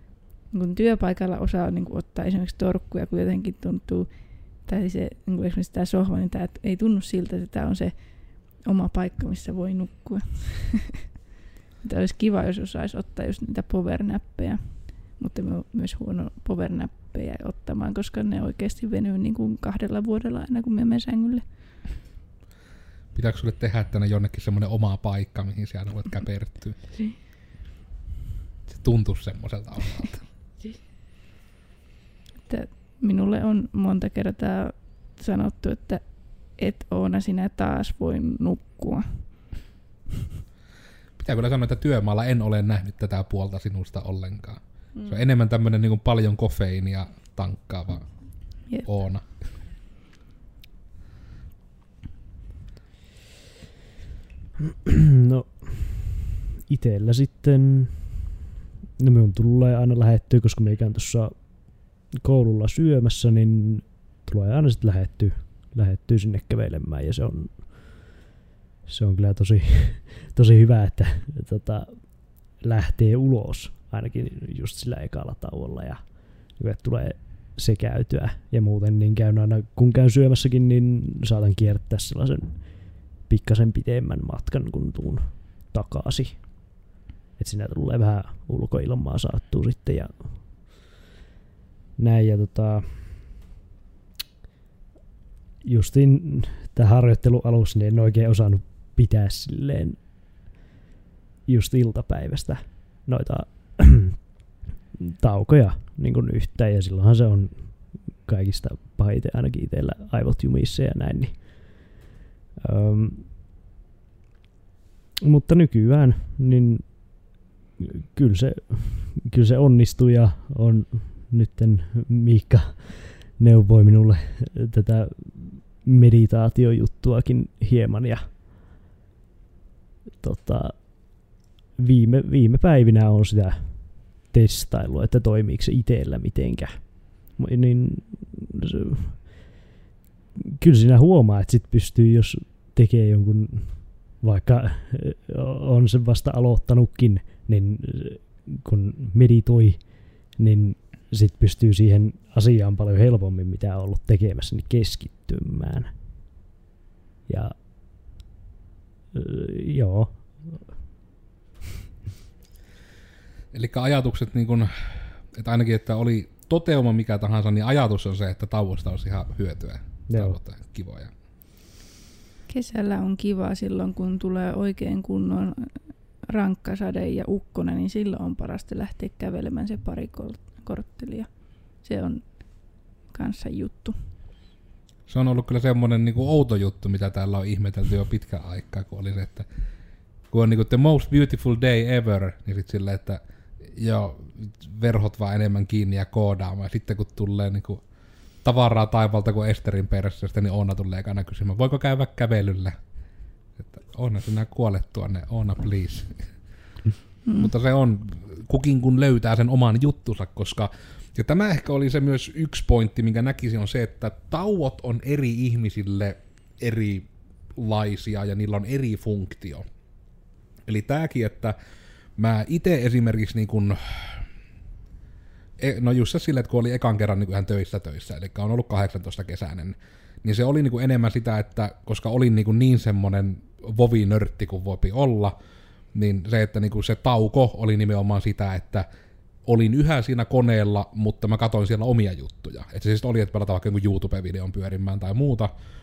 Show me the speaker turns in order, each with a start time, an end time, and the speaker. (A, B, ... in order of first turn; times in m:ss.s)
0:00.4-0:11.0 A
0:11.8-0:21.4 A
0:23.1-0:26.8 B
0:28.7-0:30.2 B
0:32.5-0:39.5 A
0:41.2-0:48.1 B
0:48.6-0:49.5 B
0:54.9-0:56.1 C
0:56.7-0:58.2 C
0:59.0-1:08.1 C
1:08.8-1:26.8 C
1:27.4-1:30.4 C
1:32.0-1:33.3 C
1:35.6-1:40.0 C
1:41.5-1:44.3 C
1:45.0-1:51.8 C
1:52.6-1:53.3 C
1:55.2-1:57.2 C
1:57.8-2:08.3 C
2:10.2-2:19.3 C
2:20.4-2:35.9 C
2:37.3-2:37.6 C
2:39.1-2:40.7 C
2:43.5-2:44.7 B
2:45.3-2:51.1 B
2:50.1-2:50.4 C
2:52.5-3:04.0 A
3:05.1-3:09.4 B
3:10.3-3:13.2 B
3:13.7-3:17.8 B
3:18.4-3:22.8 B
3:23.6-3:26.2 B
3:27.2-3:27.5 A
3:27.4-3:39.6 B
3:40.7-3:41.5 B
3:42.2-3:44.2 B
3:45.6-3:55.4 B
3:55.9-3:58.9 B
3:59.4-4:05.5 B